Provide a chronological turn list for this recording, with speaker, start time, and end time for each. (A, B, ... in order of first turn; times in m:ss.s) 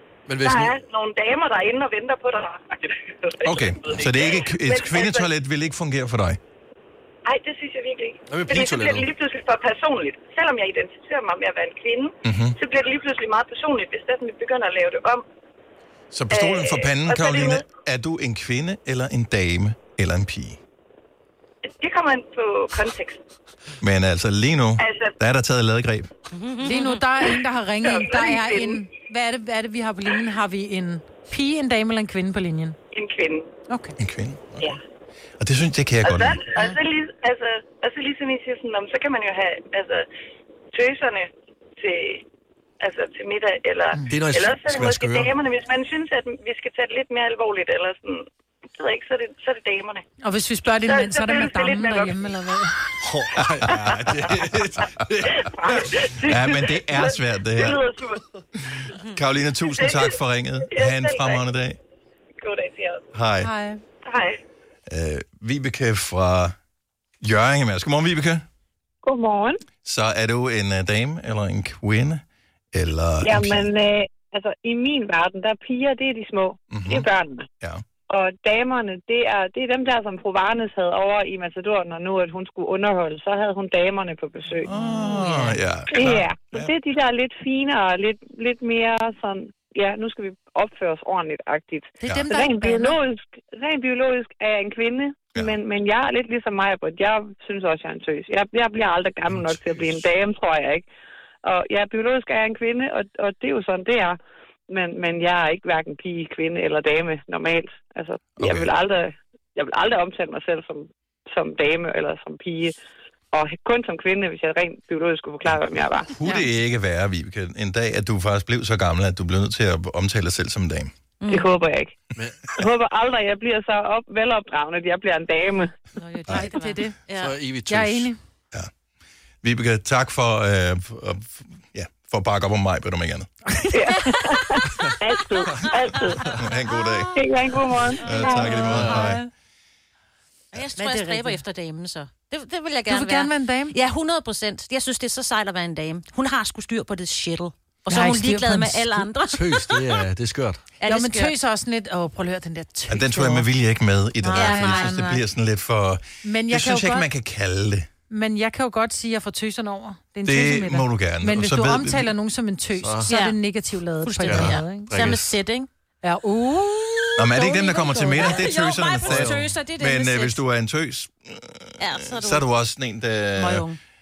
0:00.3-0:00.8 A
0:00.4-0:05.3 B
0:03.4-0:06.4 C
0:07.3-0:15.2 B
0:08.3-0:09.1 A
0:12.2-0:12.6 C
0:16.1-0:20.6 C
0:16.3-0:17.6 B
0:21.6-0:23.2 B
0:23.8-0:26.1 C
0:24.8-0:25.2 B
0:26.3-0:27.0 D
0:26.6-0:32.8 E
0:27.8-0:28.8 B
0:32.9-0:33.5 B
0:33.7-0:34.0 E
0:34.0-0:34.7 C
0:35.4-0:36.4 C
0:36.0-0:40.0 B
0:40.7-0:42.2 B
0:42.8-0:48.2 B
0:44.1-0:45.3 A
0:48.8-0:50.0 B
0:50.2-0:52.8 E
0:50.8-0:52.3 B
0:53.0-0:56.0 A
0:55.4-0:58.2 B
0:56.2-0:57.8 C
0:59.1-1:01.8 C
0:59.7-1:00.2 B
1:00.7-1:01.4 B
1:02.4-1:03.1 B
1:03.1-1:03.5 C
1:03.4-1:03.8 E
1:04.0-1:04.4 B
1:04.9-1:06.6 C
1:07.2-1:08.4 C
1:09.0-1:09.6 F
1:09.8-1:13.7 C
1:13.2-1:17.5 F
1:16.7-1:17.1 C
1:18.1-1:24.7 F
1:24.6-1:26.7 C
1:25.2-1:25.6 D
1:25.9-1:40.8 F
1:32.0-1:32.3 C
1:32.1-1:33.0 E
1:39.3-1:40.0 C
1:41.4-1:44.2 F
1:44.7-1:52.7 F
1:48.4-1:48.8 C
1:53.3-1:56.1 F
1:56.1-2:00.9 C
2:01.2-2:01.6 D
2:01.3-2:02.0 F
2:02.2-2:02.5 A
2:02.6-2:05.7 F
2:06.0-2:07.4 D
2:06.3-2:07.0 E
2:07.2-2:08.1 A
2:07.7-2:08.2 E
2:09.4-2:13.3 C
2:13.5-2:14.3 E
2:13.8-2:14.1 F
2:13.8-2:14.4 D
2:15.0-2:15.4 F
2:15.5-2:16.4 A
2:15.7-2:18.9 D
2:16.4-2:17.2 C
2:17.2-2:18.0 F
2:17.9-2:19.2 C
2:18.0-2:19.3 E
2:18.7-2:19.1 A
2:20.5-2:30.0 D
2:20.8-2:21.4 E
2:22.9-2:23.7 E
2:27.9-2:29.1 E
2:29.3-2:30.6 A
2:30.8-2:31.4 D
2:30.8-2:33.5 E
2:32.9-2:37.9 C
2:34.2-2:34.9 E
2:34.3-2:35.2 D
2:36.2-2:37.1 E
2:38.1-2:45.1 E
2:40.2-2:42.1 C
2:42.8-2:43.1 A
2:43.1-2:43.4 D
2:44.0-2:45.7 D
2:44.3-2:45.3 A
2:46.0-2:48.3 E
2:47.2-2:53.6 C
2:47.4-2:50.4 D
2:49.0-2:49.5 A
2:51.8-2:52.4 D
2:53.4-2:53.7 E